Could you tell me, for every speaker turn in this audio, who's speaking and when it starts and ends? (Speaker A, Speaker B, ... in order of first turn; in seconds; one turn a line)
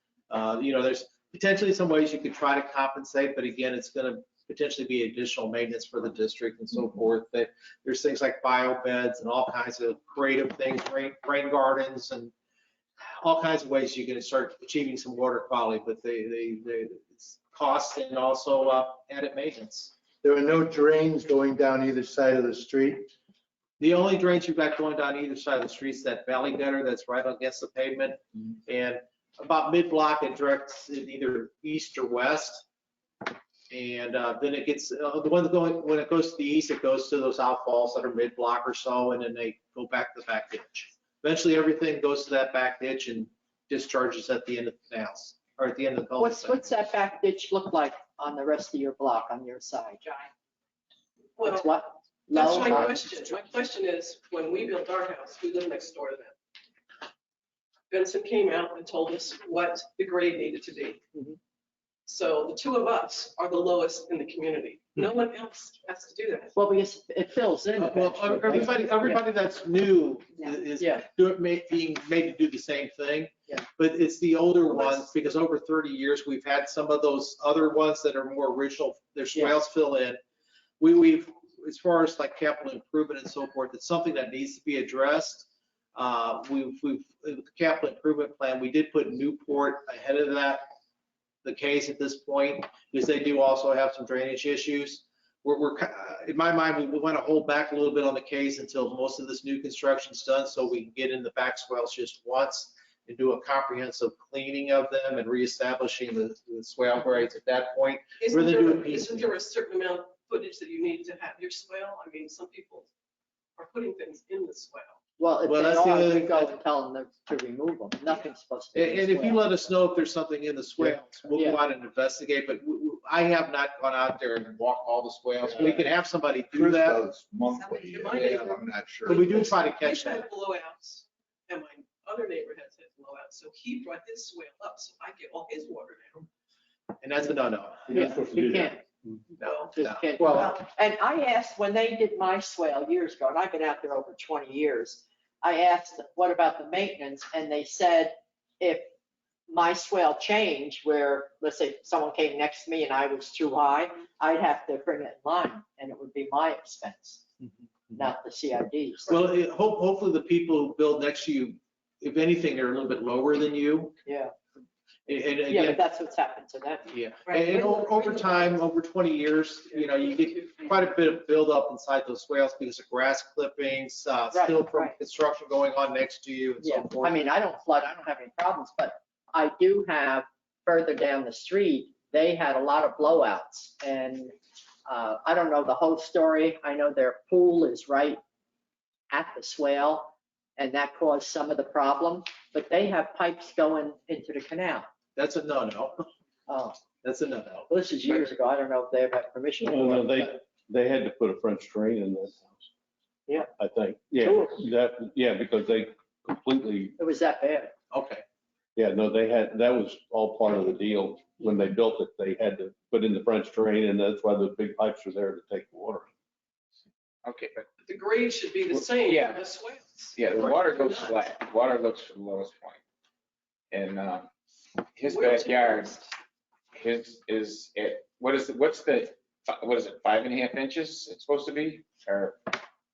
Speaker A: 0.3-12.3
Speaker A: 13.2-19.9
Speaker B: 20.2-23.1
Speaker A: 23.8-32.6
Speaker A: 33.7-46.6
Speaker C: 46.2-50.2
Speaker D: 51.4-51.7
Speaker C: 51.4-53.1
Speaker D: 52.3-56.3
Speaker D: 57.9-61.0
Speaker D: 62.0-66.5
Speaker C: 66.5-69.2
Speaker A: 67.8-80.2
Speaker C: 70.8-71.0
Speaker D: 74.7-75.0
Speaker A: 80.8-90.7
Speaker A: 91.4-109.2
Speaker D: 108.2-112.9
Speaker D: 113.6-115.0
Speaker C: 115.2-119.4
Speaker A: 115.5-116.5
Speaker A: 118.7-127.0
Speaker C: 121.3-121.6
Speaker E: 126.5-129.4
Speaker D: 127.5-136.3
Speaker A: 128.2-128.5
Speaker A: 129.1-130.2
Speaker A: 137.0-138.2
Speaker F: 137.9-138.8
Speaker C: 137.9-138.8
Speaker D: 139.4-139.7
Speaker A: 139.4-140.5
Speaker C: 139.7-148.9
Speaker C: 149.5-157.3
Speaker C: 157.9-159.2
Speaker A: 159.1-163.9
Speaker C: 164.1-164.3
Speaker A: 165.1-165.8
Speaker C: 165.5-166.9
Speaker A: 166.9-177.2
Speaker D: 167.3-168.5
Speaker D: 169.7-170.5
Speaker C: 174.3-174.9
Speaker C: 176.6-184.3
Speaker C: 184.8-188.2
Speaker C: 189.1-194.9
Speaker A: 195.2-196.1
Speaker C: 196.5-196.8
Speaker A: 197.0-197.7
Speaker C: 197.7-200.3
Speaker F: 199.6-202.7
Speaker F: 203.5-207.0
Speaker C: 204.2-204.5
Speaker C: 207.0-207.7
Speaker A: 207.9-208.2
Speaker F: 208.8-216.1
Speaker G: 217.2-217.7
Speaker D: 217.8-221.2
Speaker G: 219.0-219.4
Speaker G: 220.1-222.8
Speaker G: 223.7-224.3
Speaker G: 224.9-226.0
Speaker D: 225.1-226.1
Speaker G: 226.7-232.5